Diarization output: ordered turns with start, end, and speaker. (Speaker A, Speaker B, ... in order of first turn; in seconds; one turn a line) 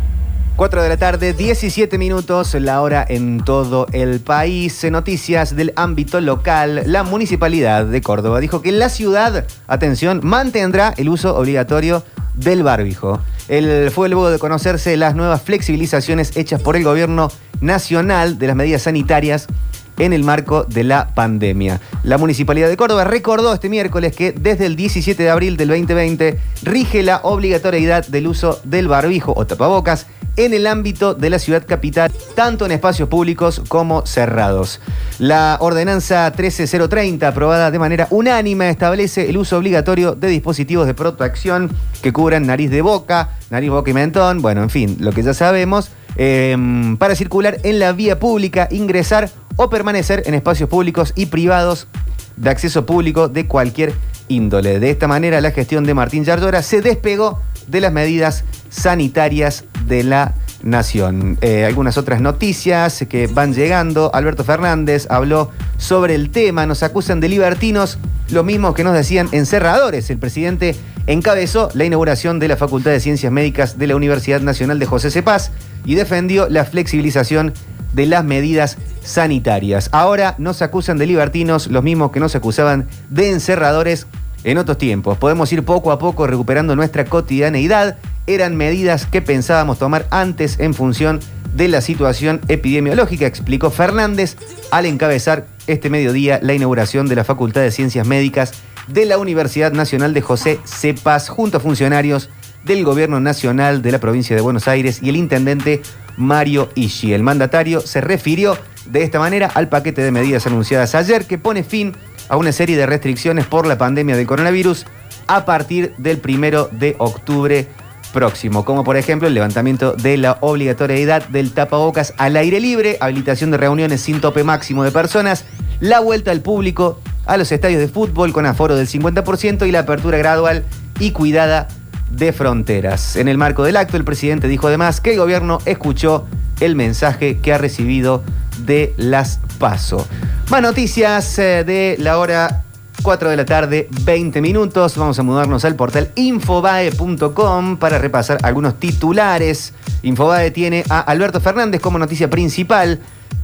Speaker A: 0.6-153.0